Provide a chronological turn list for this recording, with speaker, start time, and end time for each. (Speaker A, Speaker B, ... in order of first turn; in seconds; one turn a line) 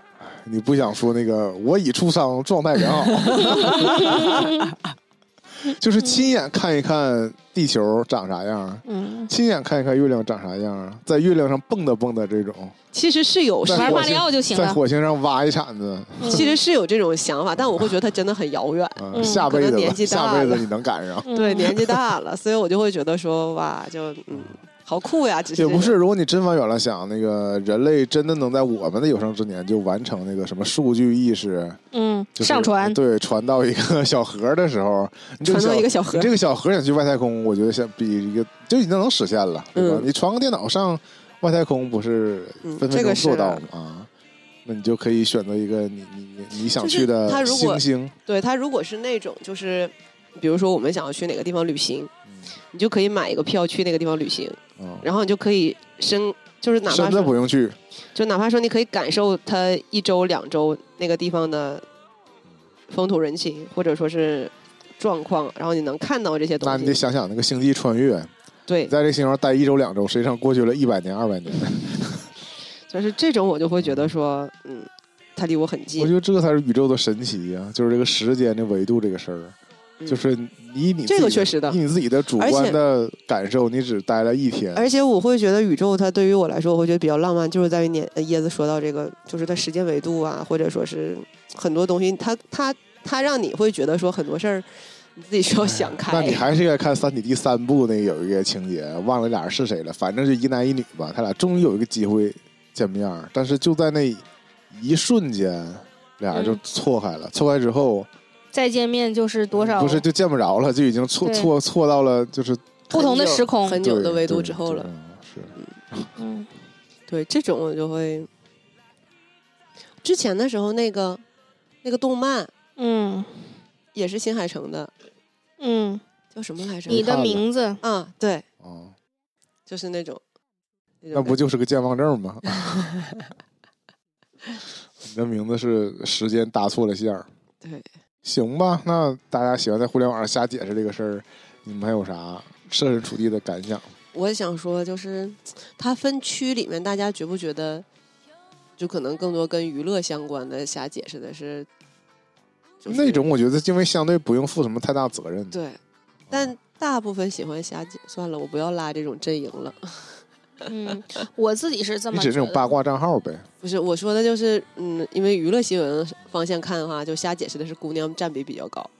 Speaker A: 0.2-4.5
Speaker B: 3.1-4.6
Speaker C: 3.5-4.7
Speaker A: 5.7-12.8
Speaker C: 8.9-9.3
Speaker B: 12.9-14.2
Speaker A: 13.6-16.5
Speaker C: 13.7-14.8
Speaker C: 16.2-16.5
Speaker B: 16.3-20.7
Speaker A: 19.0-21.8
Speaker C: 19.1-19.5
Speaker C: 21.3-21.8
Speaker B: 21.3-25.9
Speaker A: 25.6-31.8
Speaker C: 31.9-33.0
Speaker A: 32.4-44.1
Speaker B: 35.4-36.3
Speaker B: 39.8-40.1
Speaker B: 42.6-43.6
Speaker A: 44.6-48.1
Speaker B: 46.8-52.1
Speaker B: 52.7-57.4
Speaker A: 54.8-55.1
Speaker A: 56.9-57.8
Speaker B: 58.1-61.9
Speaker B: 62.9-67.0
Speaker A: 66.6-68.3
Speaker B: 68.7-68.9
Speaker A: 68.9-72.3
Speaker B: 72.9-76.1
Speaker A: 76.0-79.6
Speaker B: 80.0-80.3
Speaker A: 80.1-84.8
Speaker B: 81.1-81.8
Speaker B: 82.4-82.8
Speaker B: 84.8-96.5
Speaker A: 95.6-108.1
Speaker C: 106.3-106.6
Speaker C: 108.5-110.0
Speaker A: 109.5-113.1
Speaker C: 111.2-111.5
Speaker C: 112.9-113.8
Speaker B: 112.9-114.9
Speaker A: 113.8-116.1
Speaker C: 116.2-116.5
Speaker B: 117.1-118.3
Speaker B: 120.0-121.2
Speaker B: 121.8-122.5
Speaker C: 122.8-123.3
Speaker B: 123.9-124.9
Speaker C: 125.6-126.0
Speaker B: 126.3-127.0
Speaker A: 126.9-127.5
Speaker C: 126.9-127.8
Speaker B: 127.8-128.4
Speaker A: 128.6-128.9
Speaker B: 129.7-130.2
Speaker B: 131.0-131.4
Speaker A: 131.1-132.9
Speaker B: 132.8-133.3
Speaker A: 135.0-137.3
Speaker B: 137.6-137.9
Speaker A: 138.2-143.9
Speaker B: 144.1-147.9
Speaker B: 148.8-151.7
Speaker B: 152.8-153.3
Speaker A: 152.9-155.6
Speaker B: 155.5-155.8
Speaker B: 156.3-160.2
Speaker C: 160.7-162.8
Speaker A: 162.1-163.4
Speaker B: 163.6-168.9